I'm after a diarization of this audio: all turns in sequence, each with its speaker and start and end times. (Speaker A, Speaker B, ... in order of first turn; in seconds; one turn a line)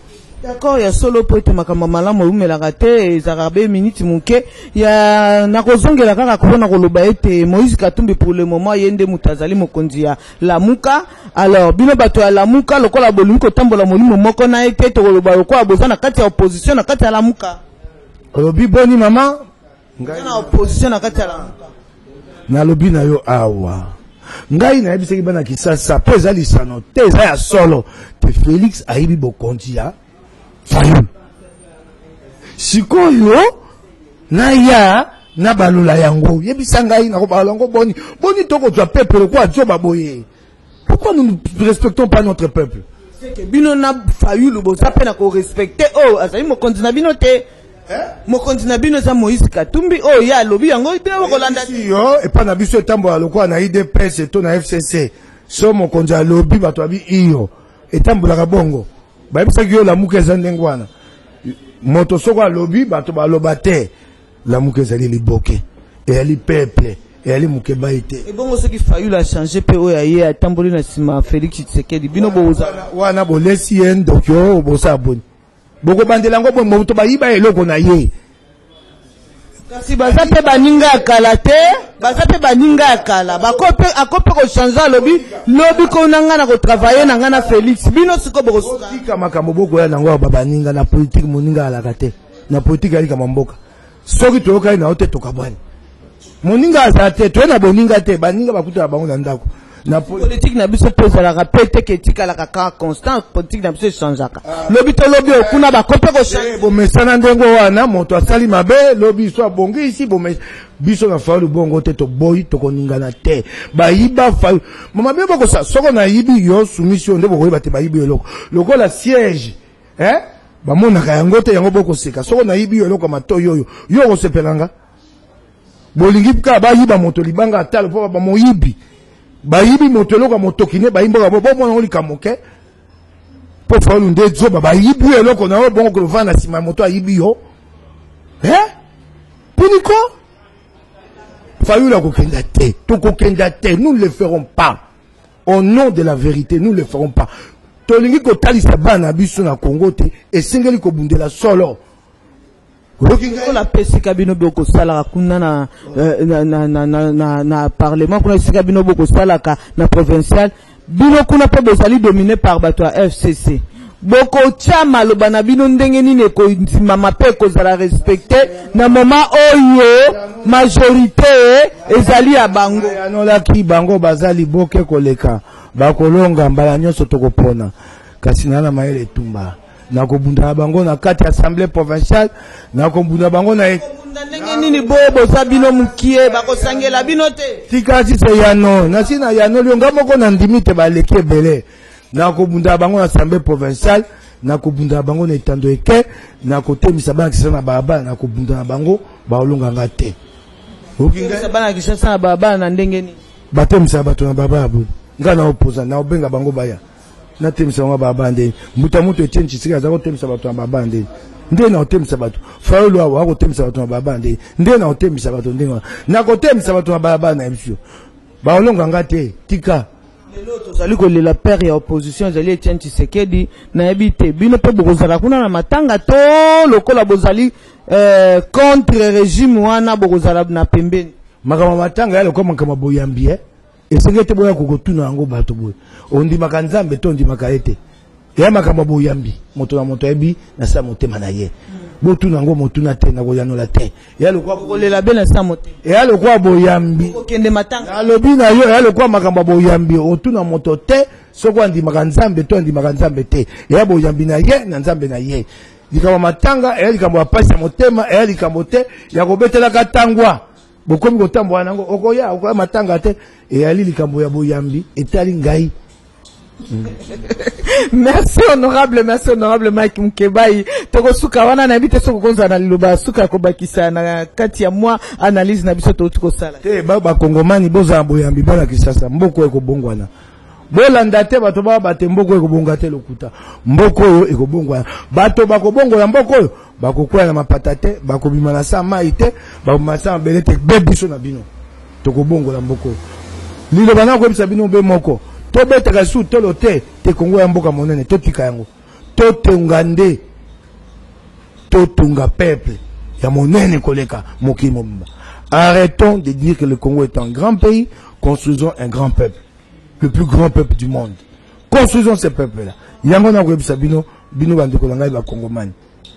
Speaker A: 0.4-17.6
Speaker B: 18.3-19.4
Speaker B: 20.0-20.5
Speaker A: 20.1-21.7
Speaker B: 22.5-23.9
Speaker B: 24.5-29.9
Speaker B: 30.7-31.1
Speaker B: 32.6-33.6
Speaker B: 34.3-40.3
Speaker B: 40.9-42.9
Speaker A: 43.2-47.5
Speaker A: 48.3-51.8
Speaker B: 51.2-60.9
Speaker B: 61.5-63.9
Speaker B: 64.5-68.3
Speaker A: 68.2-72.8
Speaker B: 72.2-75.2
Speaker B: 75.8-78.1
Speaker A: 79.7-89.0
Speaker B: 80.0-81.1
Speaker B: 88.6-95.6
Speaker B: 96.4-100.3
Speaker A: 100.0-106.6
Speaker B: 104.5-104.7
Speaker B: 106.3-124.7
Speaker B: 126.0-128.8
Speaker B: 129.4-132.4
Speaker B: 133.7-137.4
Speaker B: 138.4-138.7
Speaker B: 139.6-140.1
Speaker B: 141.6-144.8
Speaker B: 145.5-147.3
Speaker B: 147.9-151.8
Speaker B: 153.0-153.6
Speaker A: 153.2-173.0
Speaker B: 168.5-169.0
Speaker B: 170.1-170.6
Speaker B: 171.8-185.7
Speaker A: 183.8-187.6
Speaker B: 187.7-200.2
Speaker B: 201.0-201.5
Speaker A: 201.1-203.2
Speaker B: 203.5-206.8
Speaker B: 207.4-217.8
Speaker B: 218.4-219.9
Speaker A: 220.3-231.1
Speaker B: 231.4-237.8
Speaker B: 238.4-244.9
Speaker A: 244.5-245.8
Speaker B: 245.8-247.2
Speaker A: 247.0-247.9
Speaker B: 247.8-265.7
Speaker A: 266.8-276.6
Speaker B: 276.6-280.1
Speaker B: 280.7-291.5
Speaker B: 292.0-293.0
Speaker B: 293.7-300.2
Speaker B: 301.7-309.4
Speaker B: 310.0-315.8